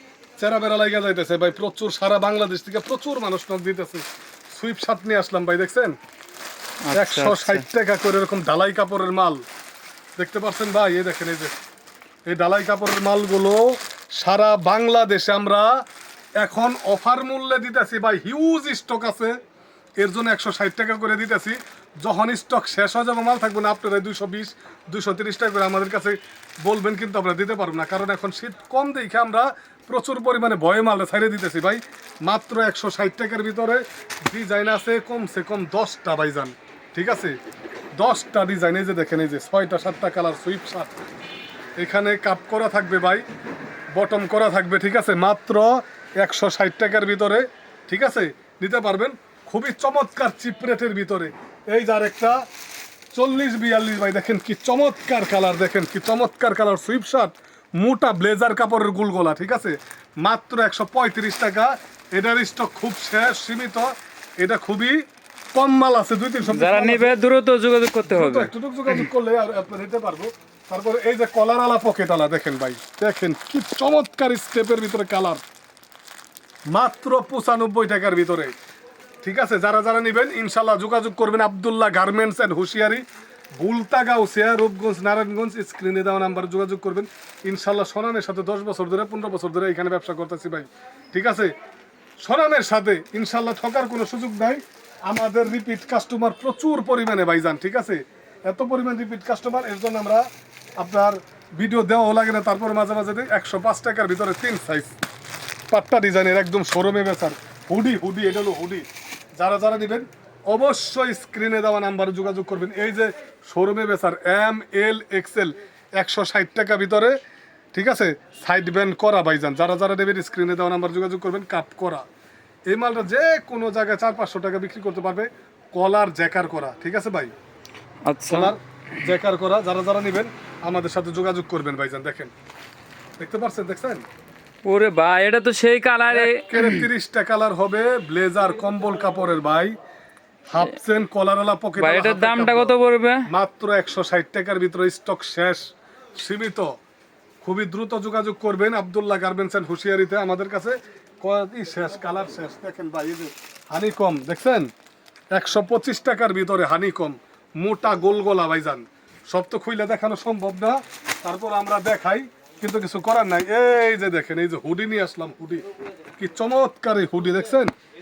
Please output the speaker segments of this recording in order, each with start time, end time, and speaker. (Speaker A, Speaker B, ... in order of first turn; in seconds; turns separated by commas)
Speaker A: 0.4-6.0, Speaker B: 6.8-7.7, Speaker A: 6.9-9.4, Speaker A: 10.2-11.5, Speaker A: 12.3-15.8, Speaker A: 16.4-19.4, Speaker A: 20.0-37.4, Speaker A: 38.0-40.9, Speaker A: 41.8-43.2, Speaker A: 43.9-52.4, Speaker A: 53.1-67.2, Speaker B: 66.5-69.0, Speaker A: 68.0-75.4, Speaker A: 76.7-78.5, Speaker A: 79.2-83.0, Speaker A: 83.6-91.5, Speaker A: 92.2-100.2, Speaker A: 100.8-104.9, Speaker A: 105.7-108.8, Speaker A: 109.4-117.1, Speaker A: 117.7-122.0, Speaker A: 122.7-127.3, Speaker B: 128.1-128.5, Speaker A: 128.3-132.3, Speaker A: 133.2-134.0, Speaker B: 134.6-136.8, Speaker A: 136.1-139.7, Speaker A: 140.5-142.7, Speaker B: 141.8-143.3, Speaker A: 143.3-145.6, Speaker A: 146.2-146.7, Speaker A: 147.4-154.7, Speaker A: 155.3-165.6, Speaker A: 166.2-167.7